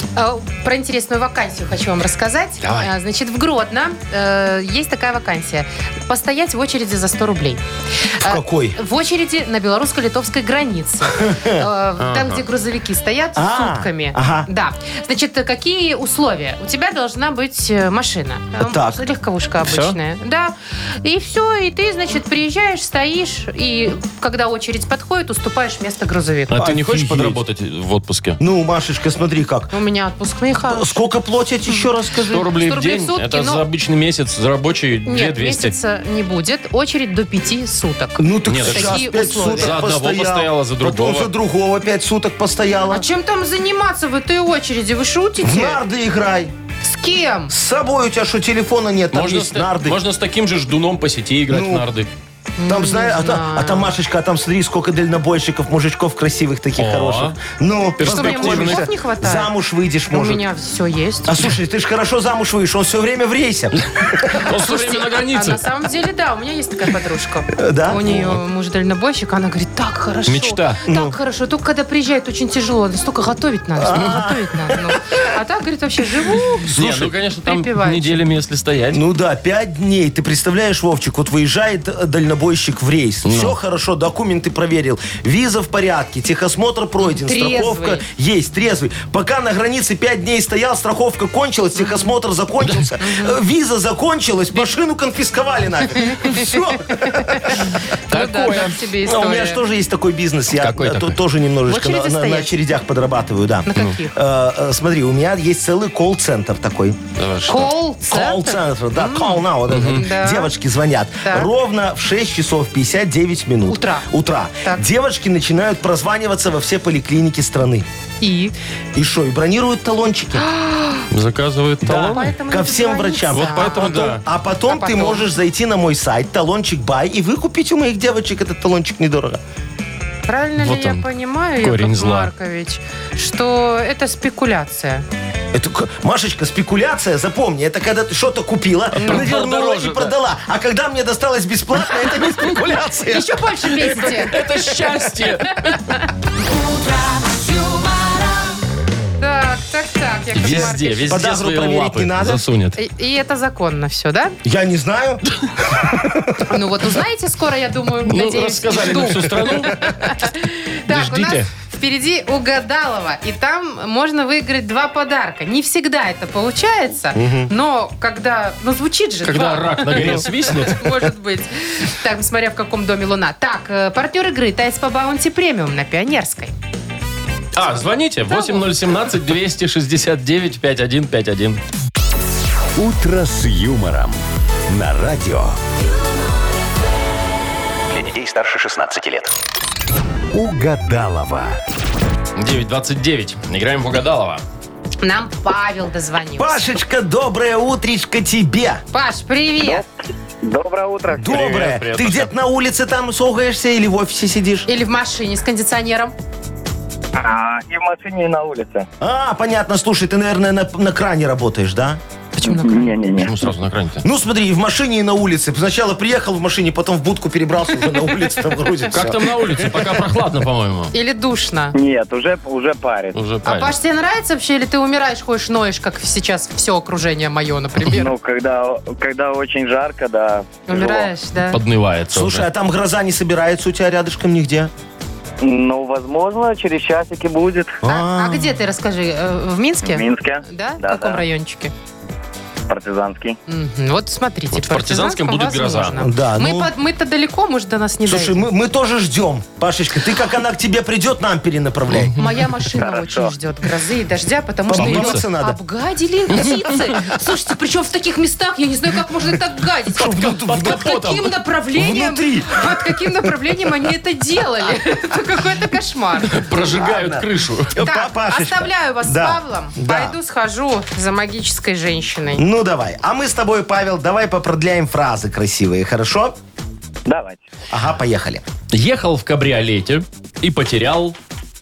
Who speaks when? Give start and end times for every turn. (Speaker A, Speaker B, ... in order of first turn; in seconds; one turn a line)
Speaker A: 0.1-7.6
Speaker B: 2.6-2.9
Speaker A: 8.2-26.6
Speaker C: 8.2-8.8
Speaker C: 11.1-11.7
Speaker B: 12.0-12.4
Speaker C: 13.3-14.5
Speaker C: 18.6-19.0
Speaker B: 19.6-20.0
Speaker B: 26.5-28.4
Speaker C: 26.5-27.4
Speaker C: 28.4-29.7
Speaker A: 29.7-31.0
Speaker C: 30.7-32.5
Speaker B: 32.3-35.7
Speaker A: 32.6-33.6
Speaker A: 35.0-39.8
Speaker C: 38.2-43.0
Speaker B: 38.5-41.3
Speaker A: 42.9-45.8
Speaker C: 45.4-46.5
Speaker A: 46.8-47.5
Speaker C: 47.5-50.0
Speaker B: 49.1-52.1
Speaker C: 51.5-51.9
Speaker A: 52.6-53.9
Speaker C: 52.7-60.4
Speaker B: 56.8-57.4
Speaker B: 58.0-58.9
Speaker A: 58.0-59.5
Speaker A: 60.1-61.4
Speaker C: 61.2-64.4
Speaker B: 63.8-65.6
Speaker A: 64.3-76.7
Speaker C: 67.5-68.3
Speaker B: 70.3-70.8
Speaker C: 70.8-71.2
Speaker C: 73.8-75.0
Speaker C: 76.7-77.1
Speaker B: 76.7-79.0
Speaker A: 77.4-78.2
Speaker C: 78.9-97.7
Speaker B: 83.2-83.5
Speaker A: 87.0-88.0
Speaker A: 91.8-92.1
Speaker A: 93.0-93.4
Speaker A: 96.0-99.6
Speaker B: 98.1-98.8
Speaker C: 99.0-107.0
Speaker B: 100.6-101.2
Speaker A: 101.7-102.5
Speaker A: 103.7-104.2
Speaker B: 107.2-107.7
Speaker A: 107.5-110.5
Speaker C: 108.0-117.9
Speaker B: 109.7-110.0
Speaker A: 111.2-111.5
Speaker A: 113.7-114.1
Speaker A: 118.2-118.5
Speaker C: 118.9-120.5
Speaker A: 120.3-121.1
Speaker B: 121.1-122.3
Speaker A: 121.8-124.1
Speaker C: 121.9-129.4
Speaker B: 123.3-124.2
Speaker A: 124.7-125.3
Speaker A: 130.3-135.1
Speaker B: 130.6-131.1
Speaker B: 131.6-132.3
Speaker C: 135.5-143.4
Speaker A: 139.0-139.3
Speaker B: 139.0-140.1
Speaker A: 143.1-144.7
Speaker B: 143.8-145.8
Speaker D: 146.4-148.6
Speaker A: 149.2-151.2
Speaker B: 150.4-152.8
Speaker C: 150.4-152.4
Speaker A: 152.8-154.4
Speaker C: 154.4-156.4
Speaker A: 156.5-176.5
Speaker B: 158.1-159.9
Speaker B: 160.9-161.5
Speaker C: 167.1-167.5
Speaker B: 169.2-170.9
Speaker C: 169.9-170.5
Speaker B: 177.6-181.6
Speaker A: 178.3-178.7
Speaker E: 182.8-185.6
Speaker D: 187.9-189.3
Speaker E: 190.3-191.6
Speaker B: 192.3-194.4
Speaker A: 195.0-196.6
Speaker C: 196.4-198.8
Speaker A: 198.9-199.8
Speaker F: 199.6-199.9
Speaker F: 200.4-201.3
Speaker C: 201.1-204.7
Speaker B: 201.3-202.3
Speaker A: 204.7-206.1
Speaker F: 207.1-208.9
Speaker C: 209.0-212.0
Speaker A: 212.4-213.1
Speaker F: 212.4-213.5
Speaker B: 213.1-214.0
Speaker C: 214.0-220.0
Speaker B: 218.9-220.9
Speaker A: 220.9-221.8
Speaker F: 221.7-223.2
Speaker B: 223.1-223.7
Speaker A: 223.4-228.1
Speaker F: 227.8-231.1
Speaker A: 230.7-231.6
Speaker B: 231.5-232.5
Speaker C: 232.1-234.7
Speaker F: 235.4-237.8
Speaker C: 237.8-238.6
Speaker A: 237.9-241.7
Speaker F: 239.8-241.2
Speaker F: 242.7-243.4
Speaker A: 243.5-248.4
Speaker B: 244.5-245.9
Speaker C: 246.0-246.7
Speaker C: 248.0-252.1
Speaker B: 251.9-252.4
Speaker A: 252.2-266.5
Speaker F: 252.8-253.3
Speaker C: 254.7-255.6
Speaker B: 254.8-255.2
Speaker B: 256.4-256.7
Speaker C: 259.9-261.1
Speaker B: 260.0-261.3
Speaker C: 261.7-262.7
Speaker B: 266.3-267.7
Speaker C: 266.6-270.2
Speaker A: 267.8-272.4
Speaker C: 272.4-276.4
Speaker F: 277.1-277.4
Speaker C: 277.7-278.4
Speaker B: 278.7-281.1